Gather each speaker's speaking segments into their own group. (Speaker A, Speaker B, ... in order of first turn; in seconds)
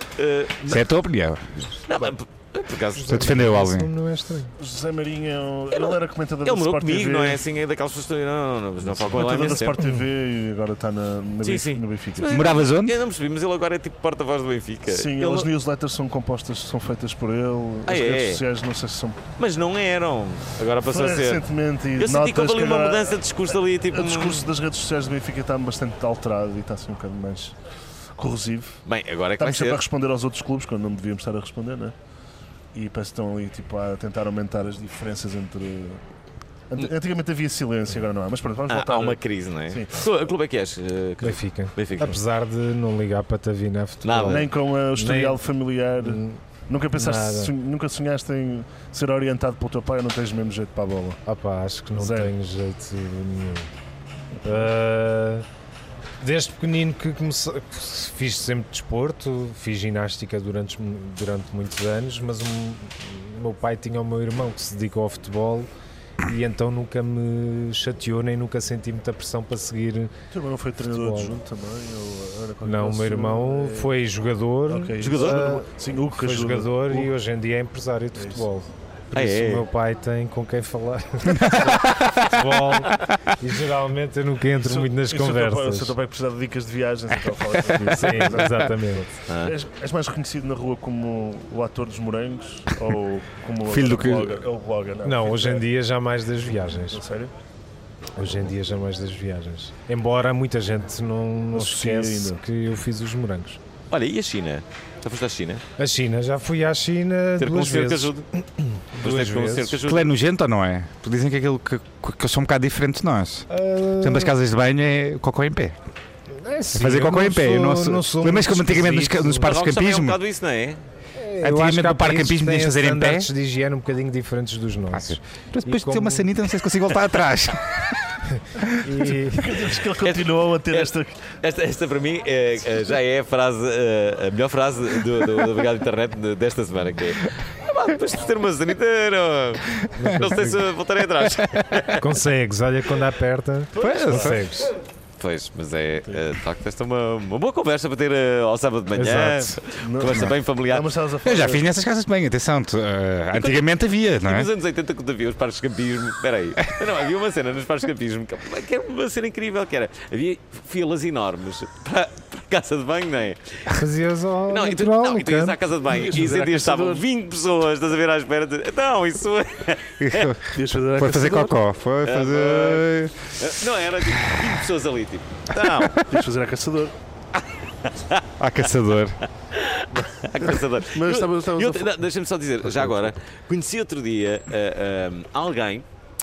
Speaker A: 0.1-0.8, 1.9-3.4, 5.7-9.8, 11.4-15.5, 17.9-18.4, 19.4-21.4, 22.0-24.4, 28.9-29.8, 38.7-42.2, 44.0-44.5, 75.0-75.5, 79.1-79.7, 89.3-89.5, 103.9-105.6, 107.4-108.2, 109.0-110.1, 119.4-120.8, 130.0-130.9, 131.4-142.1, 143.8-144.5, 145.2-150.9, 153.3-153.7, 154.2-163.8, 164.5-170.3, 172.0-176.0, 177.3-178.6, 179.4-185.8
Speaker B: 0.7-1.6, 3.0-3.9, 12.3-13.0, 81.3-82.2, 93.7-94.4, 109.8-113.5, 114.0-115.8, 116.7-120.2, 121.4-123.3, 124.9-129.1, 141.3-141.6, 143.8-144.4, 151.2-154.5, 170.0-173.3, 178.4-179.2
Speaker C: 2.9-4.5, 9.8-10.0, 41.2-45.4, 46.0-46.4, 46.9-47.5, 51.2-53.7, 54.4-55.5, 56.2-65.7, 66.2-70.1, 70.9-71.3, 72.6-85.9, 87.8-89.0, 95.0-97.0, 98.2-103.6, 105.8-109.8, 113.5-114.3, 116.3-119.5, 121.2-126.3, 128.3-129.5, 139.9-140.6, 142.0-144.7, 149.0-149.5, 163.7-165.6
Speaker D: 4.6-7.4, 8.8-12.3, 14.9-19.2, 20.8-23.2, 23.9-27.5, 28.2-28.8, 29.4-31.9, 32.7-36.0, 36.7-40.0, 44.2-51.2, 52.0-52.3, 70.3-73.9, 74.7-77.1, 78.2-78.4, 84.6-95.6, 96.9-97.3, 101.5-102.4, 129.3-131.2, 149.8-151.7, 165.8-167.0, 170.5-171.6, 176.0-176.9, 180.9-182.0, 182.7-183.1